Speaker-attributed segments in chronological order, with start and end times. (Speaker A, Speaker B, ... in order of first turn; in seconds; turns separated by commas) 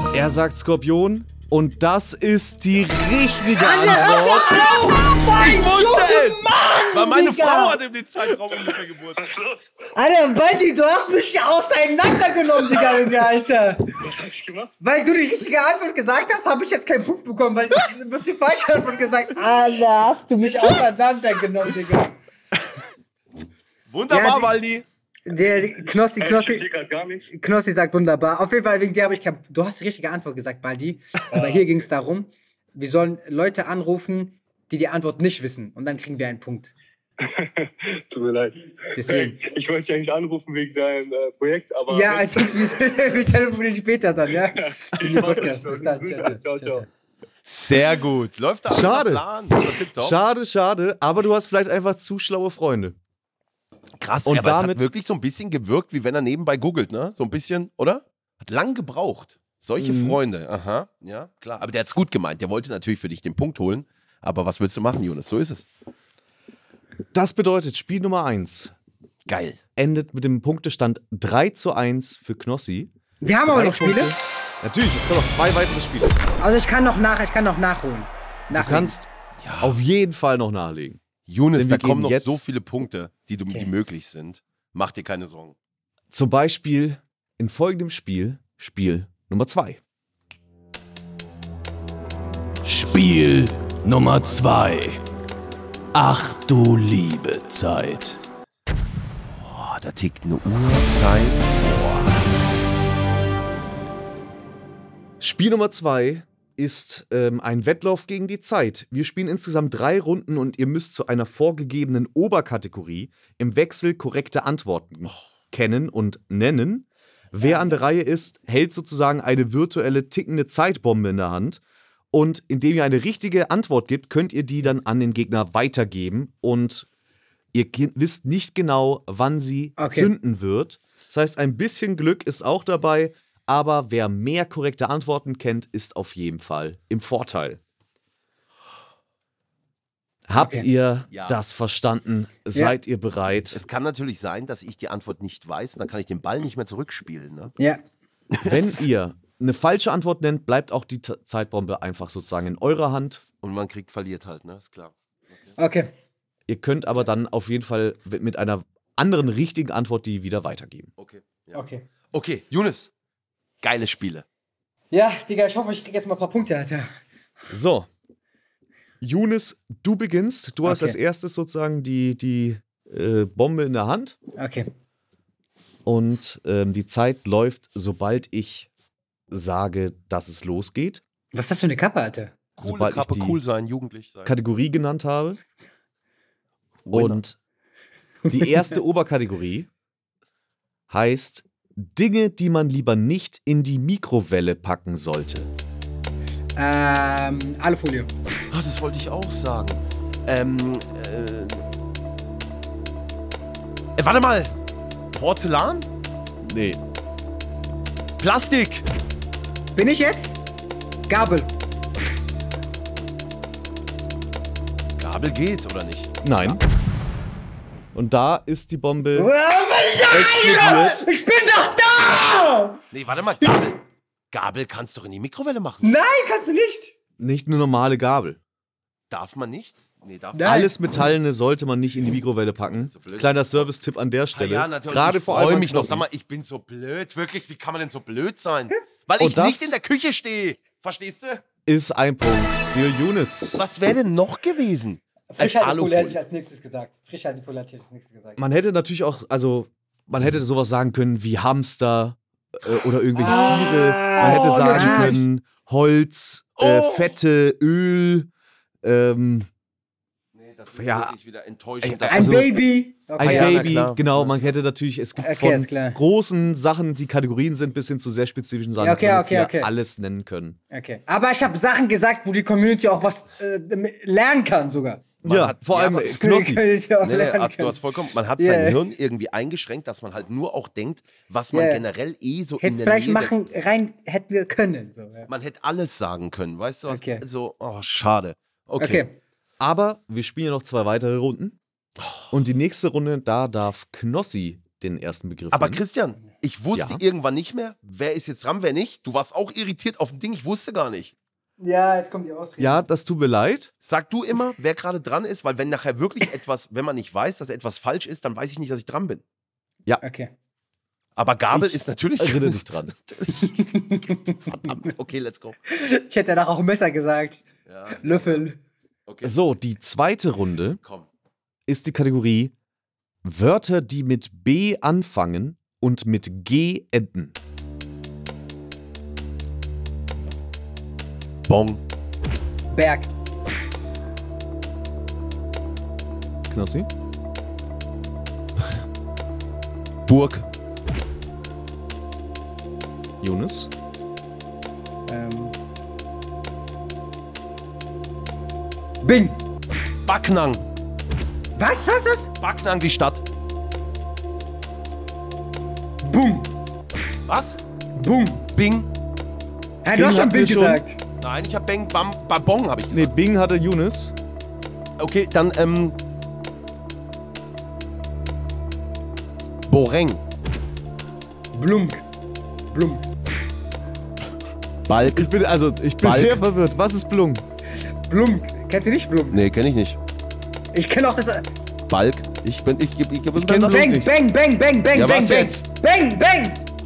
Speaker A: 0.1-4.8, Speaker B: 3.5-7.8, Speaker C: 5.4-9.3, Speaker D: 9.3-9.6, Speaker B: 9.9-13.8, Speaker D: 14.1-14.7, Speaker B: 14.8-22.1, Speaker C: 23.9-24.8, Speaker B: 24.1-24.5, Speaker B: 25.3-26.7, Speaker D: 26.2-27.3, Speaker B: 27.3-36.7, Speaker D: 31.3-31.7, Speaker D: 37.2-43.2, Speaker B: 39.0-39.4, Speaker B: 41.9-46.9, Speaker D: 44.6-46.8, Speaker C: 47.4-50.2, Speaker A: 48.7-49.2, Speaker A: 50.0-53.0, Speaker C: 54.0-65.7, Speaker A: 54.2-54.9, Speaker A: 59.8-60.2, Speaker A: 67.1-68.7, Speaker C: 69.2-69.6, Speaker A: 69.8-72.9, Speaker B: 73.2-74.1, Speaker A: 73.4-76.2, Speaker B: 76.4-79.0, Speaker A: 78.5-81.0, Speaker C: 79.4-79.8, Speaker C: 81.3-85.5, Speaker A: 81.5-82.4, Speaker A: 86.1-89.8, Speaker E: 92.6-95.0, Speaker E: 95.9-98.2, Speaker C: 99.3-102.2, Speaker A: 105.2-121.6, Speaker B: 117.4-117.8, Speaker A: 122.1-126.9, Speaker A: 127.5-137.6, Speaker B: 129.8-130.1, Speaker A: 140.3-143.6, Speaker B: 140.4-140.7, Speaker C: 141.1-141.4, Speaker C: 143.5-147.5, Speaker C: 148.3-148.8, Speaker A: 148.4-153.2, Speaker C: 153.4-155.5, Speaker B: 155.6-155.9, Speaker A: 156.5-160.9, Speaker C: 161.0-162.9, Speaker B: 161.5-161.8, Speaker C: 163.6-164.2, Speaker B: 164.9-166.9, Speaker A: 167.5-167.9, Speaker A: 169.0-174.2, Speaker B: 170.6-171.0, Speaker B: 174.4-174.7, Speaker A: 175.8-178.7, Speaker A: 179.3-181.0, Speaker B: 181.3-182.3, Speaker C: 182.6-184.3, Speaker A: 182.6-183.4, Speaker A: 184.2-185.4, Speaker C: 186.8-187.2, Speaker A: 186.9-187.4, Speaker B: 188.2-188.7, Speaker A: 188.3-189.7, Speaker A: 190.9-195.5, Speaker B: 196.6-198.1, Speaker C: 198.5-201.6, Speaker C: 204.0-204.5, Speaker C: 205.1-205.9, Speaker A: 206.4-206.8, Speaker C: 208.2-208.8, Speaker B: 209.8-210.3, Speaker B: 211.1-211.5, Speaker C: 215.0-216.6, Speaker A: 216.2-216.6, Speaker A: 217.9-219.3, Speaker B: 219.1-222.8, Speaker A: 220.1-221.0, Speaker C: 222.9-223.8, Speaker C: 224.3-225.9, Speaker B: 225.8-226.9, Speaker A: 227.2-228.4, Speaker C: 229.1-230.5, Speaker B: 230.3-230.7, Speaker A: 230.4-236.1, Speaker C: 232.7-233.7, Speaker C: 234.3-241.4, Speaker A: 239.2-239.8, Speaker A: 241.7-243.6, Speaker C: 243.5-246.2, Speaker B: 245.3-248.4, Speaker A: 248.4-258.3, Speaker B: 253.1-255.2, Speaker C: 254.2-255.2, Speaker C: 256.6-257.1, Speaker A: 258.8-259.5, Speaker C: 260.3-262.6, Speaker A: 260.7-261.1, Speaker A: 261.8-262.6, Speaker B: 262.1-263.8, Speaker C: 263.2-264.5, Speaker A: 263.2-270.6, Speaker B: 265.2-266.0, Speaker B: 268.8-269.7, Speaker B: 270.7-275.0, Speaker C: 275.2-276.2, Speaker A: 275.2-276.6, Speaker B: 276.1-277.8, Speaker C: 277.0-283.3, Speaker B: 278.4-278.8, Speaker B: 281.5-281.8, Speaker B: 282.6-285.3, Speaker C: 285.3-289.0, Speaker B: 286.9-287.2, Speaker B: 288.8-289.2, Speaker A: 289.6-291.6, Speaker C: 292.0-292.3, Speaker A: 292.3-295.8, Speaker C: 295.5-301.1, Speaker A: 296.7-297.0, Speaker B: 301.6-302.8, Speaker A: 302.6-303.7, Speaker C: 303.8-309.2, Speaker B: 310.0-310.3, Speaker C: 311.1-313.6, Speaker A: 311.5-312.9, Speaker B: 313.5-314.4, Speaker C: 314.3-315.6, Speaker B: 315.7-317.4, Speaker C: 317.7-318.4, Speaker B: 317.9-318.6, Speaker C: 319.1-319.3, Speaker A: 319.2-320.8, Speaker C: 320.8-321.1, Speaker A: 321.7-322.5, Speaker A: 323.2-327.3, Speaker C: 331.5-331.8, Speaker B: 332.7-333.1, Speaker A: 336.5-336.9, Speaker C: 340.1-340.4, Speaker A: 343.2-343.7, Speaker B: 345.1-345.5, Speaker B: 349.0-349.4, Speaker C: 350.1-350.6, Speaker B: 351.6-352.3, Speaker C: 352.4-353.2, Speaker B: 356.0-356.5, Speaker C: 357.2-357.6, Speaker B: 357.9-358.5, Speaker C: 358.5-358.9, Speaker B: 359.8-361.0, Speaker A: 359.9-360.8, Speaker C: 361.2-363.1, Speaker A: 362.9-364.1, Speaker C: 365.0-366.0, Speaker C: 369.7-370.2, Speaker B: 371.5-372.1, Speaker B: 372.7-373.1, Speaker C: 374.9-375.4, Speaker A: 375.1-377.4, Speaker C: 376.0-376.4, Speaker B: 378.1-379.4, Speaker C: 379.3-380.0, Speaker B: 380.7-381.5, Speaker C: 381.9-383.9, Speaker A: 383.3-384.1, Speaker B: 383.6-386.6, Speaker C: 384.9-385.6